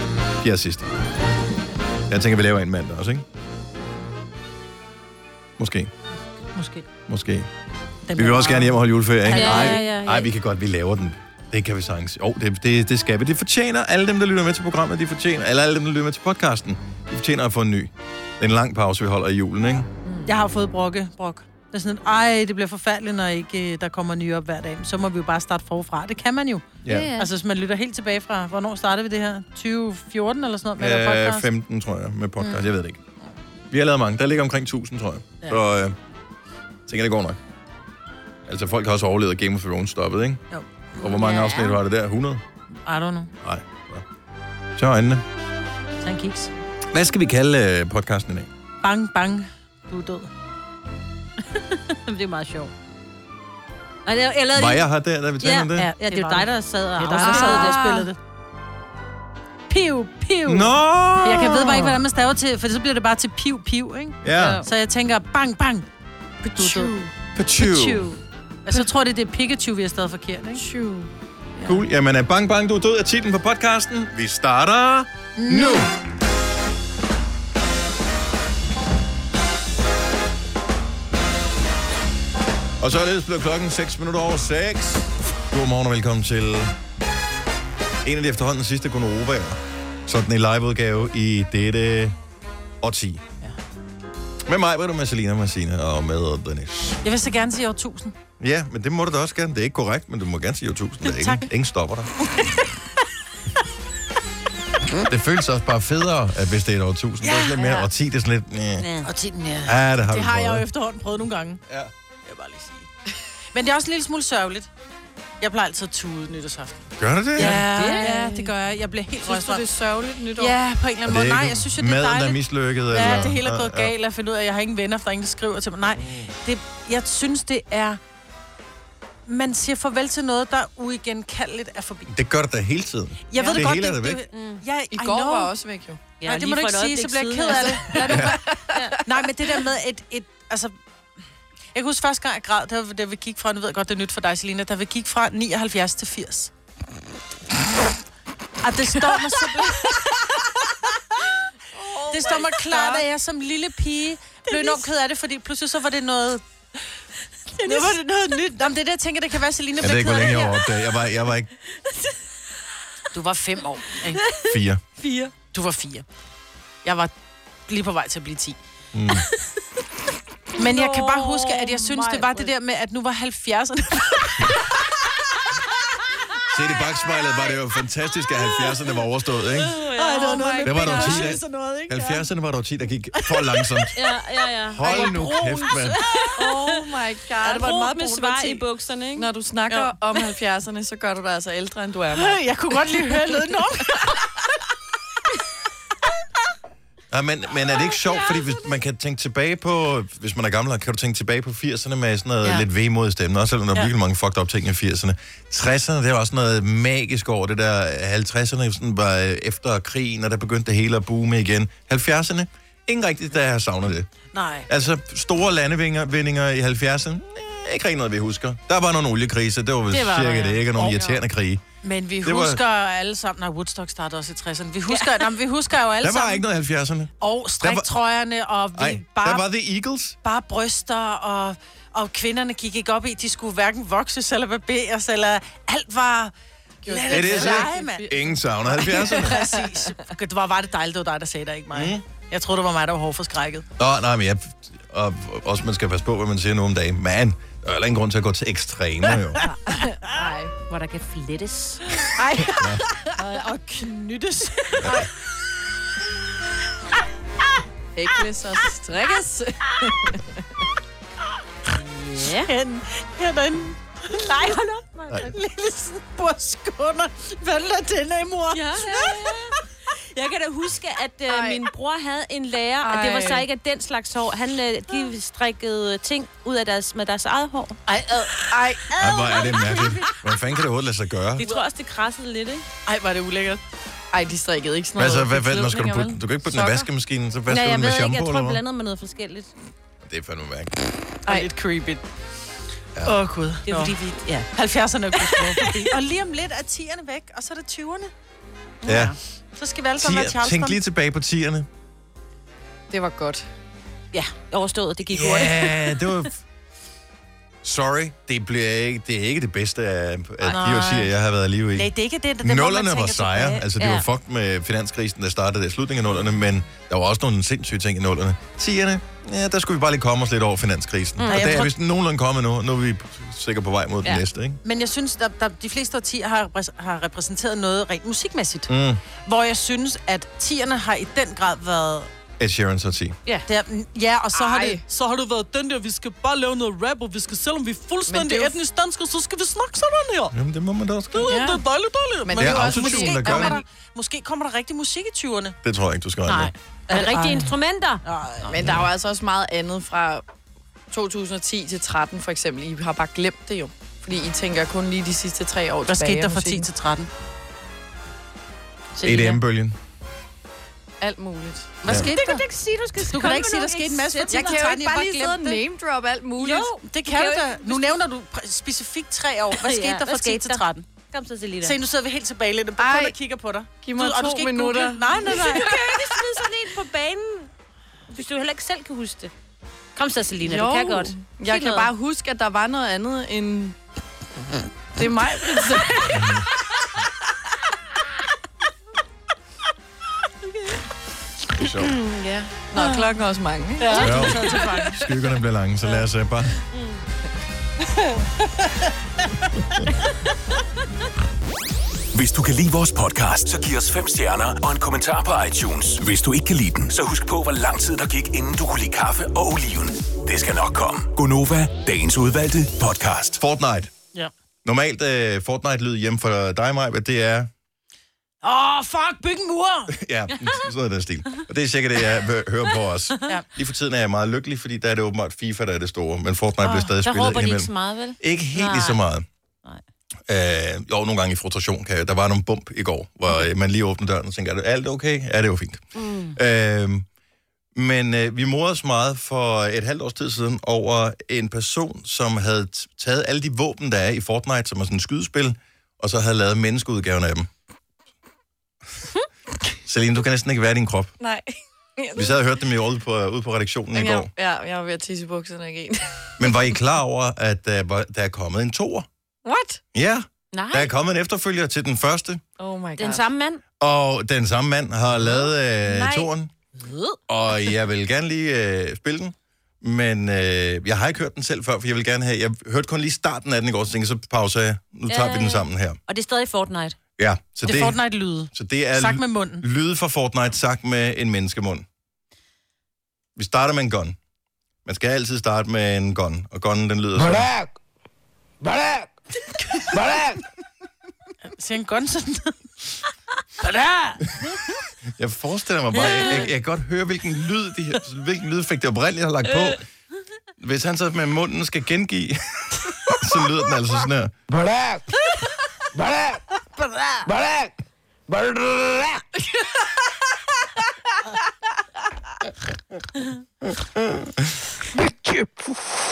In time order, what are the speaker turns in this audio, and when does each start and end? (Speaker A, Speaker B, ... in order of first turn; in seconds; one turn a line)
Speaker A: 0.4-0.9
Speaker A: 2.1-3.2
Speaker A: 5.6-5.9
Speaker B: 6.5-6.8
Speaker A: 7.1-7.5
Speaker B: 8.1-9.8
Speaker A: 8.2-19.9
Speaker C: 9.3-10.3
Speaker B: 20.3-31.4
Speaker A: 26.8-27.1
Speaker C: 26.9-27.3
Speaker A: 30.8-33.0
Speaker A: 33.7-36.0
Speaker A: 36.9-37.4
Speaker A: 38.5-40.4
Speaker B: 40.5-40.9
Speaker A: 41.0-42.4
Speaker C: 41.0-41.8
Speaker B: 42.9-43.3
Speaker A: 43.4-44.0
Speaker A: 44.8-45.2
Speaker B: 46.0-46.5
Speaker A: 46.9-48.5
Speaker B: 48.8-50.3
Speaker C: 51.5-52.7
Speaker C: 54.0-54.9
Speaker A: 54.5-55.9
Speaker C: 55.4-58.1
Speaker B: 55.8-58.2
Speaker D: 57.2-57.8
Speaker B: 59.7-65.9
Speaker A: 60.5-62.0
Speaker A: 64.2-64.6
Speaker C: 64.4-64.6
Speaker D: 66.5-67.1
Speaker B: 66.5-66.9
Speaker A: 67.3-68.1
Speaker B: 67.6-70.7
Speaker D: 70.5-71.1
Speaker A: 71.6-75.9
Speaker B: 75.4-75.8
Speaker A: 82.8-86.7
Speaker A: 88.0-92.2
Speaker A: 92.8-93.2
Speaker A: 94.5-97.0
Speaker B: 97.0-98.1
Speaker A: 98.4-102.1
Speaker B: 101.0-101.5
Speaker A: 105.1-108.9
Speaker B: 107.2-107.5
Speaker C: 108.8-109.6
Speaker B: 109.0-109.5
Speaker A: 109.6-110.6
Speaker B: 110.1-111.6
Speaker B: 112.2-112.9
Speaker B: 113.5-114.7
Speaker B: 115.4-119.7
Speaker A: 117.0-117.6
Speaker C: 117.4-118.5
Speaker D: 118.0-118.4
Speaker D: 119.2-120.5
Speaker B: 120.4-122.4
Speaker A: 121.0-123.9
Speaker B: 122.9-128.0
Speaker B: 129.3-132.1
Speaker A: 132.1-134.2
Speaker B: 133.3-135.5
Speaker C: 134.3-134.6
Speaker D: 134.9-136.0
Speaker C: 136.2-139.0
Speaker B: 136.2-138.5
Speaker D: 138.1-138.9
Speaker B: 139.0-140.7
Speaker B: 141.7-146.5
Speaker B: 148.6-150.1
Speaker D: 151.8-153.1
Speaker B: 152.1-156.4
Speaker C: 157.6-158.0
Speaker B: 157.6-160.5
Speaker A: 159.8-161.5
Speaker B: 163.1-164.2
Speaker A: 164.5-164.8
Speaker C: 165.0-165.3
Speaker B: 165.5-166.0
Speaker B: 166.8-167.1
Speaker B: 167.7-168.6
Speaker A: 168.9-169.2
Speaker B: 170.6-174.6
Speaker C: 170.6-172.5
Speaker A: 176.5-179.8
Speaker C: 179.7-181.1
Speaker B: 179.9-182.2
Speaker D: 180.2-181.3
Speaker A: 180.6-184.0
Speaker B: 183.2-183.6
Speaker C: 183.9-186.8
Speaker A: 184.7-186.0
Speaker B: 184.9-185.1
Speaker D: 186.4-188.6
Speaker C: 187.4-189.9
Speaker D: 189.2-192.4
Speaker B: 192.1-194.3
Speaker A: 197.1-214.1
Speaker B: 214.3-214.7
Speaker A: 214.7-221.6
Speaker B: 219.9-221.2
Speaker B: 221.8-226.4
Speaker A: 222.2-222.6
Speaker C: 224.9-225.3
Speaker A: 226.0-227.9
Speaker B: 227.2-229.5
Speaker A: 228.7-230.2
Speaker B: 230.2-236.3
Speaker D: 236.8-239.9
Speaker B: 236.8-243.6
Speaker A: 237.1-239.4
Speaker A: 241.7-242.0
Speaker A: 243.8-249.4
Speaker B: 249.5-249.8
Speaker D: 249.7-250.5
Speaker C: 250.6-252.0
Speaker D: 252.2-252.6
Speaker A: 252.5-252.8
Speaker B: 253.2-255.1
Speaker D: 257.9-260.2
Speaker C: 261.7-262.5
Speaker B: 262.4-264.4
Speaker C: 264.2-265.3
Speaker B: 265.2-269.4
Speaker C: 268.5-269.6
Speaker C: 270.1-277.8
Speaker D: 271.3-271.6
Speaker D: 272.8-273.4
Speaker B: 277.9-279.9
Speaker D: 278.5-278.8
Speaker A: 278.9-281.4
Speaker C: 281.4-282.6
Speaker B: 282.9-283.6
Speaker D: 284.1-286.9
Speaker A: 284.9-288.6
Speaker C: 287.5-289.5
Speaker A: 290.0-290.9
Speaker B: 291.2-292.0
Speaker D: 291.3-291.5
Speaker B: 293.0-293.9
Speaker C: 293.6-294.5
Speaker B: 294.5-298.1
Speaker C: 295.2-295.9
Speaker C: 298.8-299.1
Speaker A: 298.8-299.1
Speaker B: 299.6-300.8
Speaker A: 300.0-301.7
Speaker D: 302.9-303.4
Speaker C: 304.1-306.1
Speaker A: 305.1-306.3
Speaker A: 307.6-311.9
Speaker B: 310.4-311.1
Speaker B: 311.7-313.6
Speaker A: 312.4-324.6
Speaker C: 313.8-314.0
Speaker C: 321.2-321.6
Speaker B: 321.3-321.7
Speaker B: 324.6-328.7
Speaker A: 328.7-329.0
Speaker B: 329.2-332.1
Speaker A: 332.4-333.2
Speaker B: 333.5-340.3
Speaker D: 334.3-334.8
Speaker D: 338.1-338.6
Speaker A: 340.3-341.3
Speaker B: 341.1-345.5
Speaker D: 342.2-343.6
Speaker A: 342.4-343.6
Speaker A: 345.6-346.5
Speaker C: 346.3-348.0
Speaker B: 346.9-347.5
Speaker B: 348.1-348.6
Speaker D: 348.5-350.2
Speaker D: 350.9-356.6
Speaker B: 355.9-357.1
Speaker D: 359.0-359.4
Speaker A: 359.0-359.8
Speaker D: 361.0-361.8
Speaker B: 361.8-362.4
Speaker C: 361.9-364.7
Speaker B: 363.1-365.6
Speaker D: 364.3-366.7
Speaker C: 366.4-368.0
Speaker B: 366.8-370.8
Speaker C: 369.6-371.8
Speaker B: 371.6-375.9
Speaker D: 372.8-373.1
Speaker D: 373.8-375.1
Speaker C: 375.2-377.5
Speaker C: 378.1-379.3
Speaker C: 379.9-381.9
Speaker D: 380.4-383.7
Speaker D: 384.9-386.2
Speaker A: 386.2-386.4
Speaker A: 391.6-391.9
Speaker D: 392.7-394.3
Speaker B: 392.8-393.1
Speaker B: 393.8-395.0
Speaker A: 394.0-396.5
Speaker E: 402.1-413.4
Speaker A: 413.4-413.9
Speaker A: 414.6-417.5
Speaker B: 418.4-419.9
Speaker A: 419.9-429.2
Speaker C: 426.9-429.0
Speaker A: 430.3-435.8
Speaker C: 435.9-436.4
Speaker A: 436.3-437.0
Speaker A: 437.7-447.5
Speaker A: 449.9-451.1
Speaker D: 451.2-452.4
Speaker A: 452.1-454.3
Speaker D: 453.9-456.4
Speaker A: 456.4-459.1
Speaker D: 459.4-459.8
Speaker A: 459.9-462.4
Speaker C: 460.5-460.9
Speaker D: 462.6-463.2
Speaker C: 462.9-463.6
Speaker A: 463.8-466.5
Speaker C: 466.8-467.2
Speaker A: 467.3-476.0
Speaker C: 475.1-477.0
Speaker A: 477.2-478.0
Speaker B: 477.6-479.6
Speaker A: 478.5-481.8
Speaker A: 483.4-484.1
Speaker A: 484.8-487.5
Speaker F: 487.2-487.7
Speaker F: 488.6-489.1
Speaker F: 489.9-490.4
Speaker B: 491.6-492.6
Speaker B: 493.6-494.1
Speaker A: 495.2-499.8
Speaker A: 500.6-504.3
Speaker F: 504.5-505.1
Speaker F: 505.9-506.4
Speaker F: 507.2-507.7
Speaker F: 508.3-509.2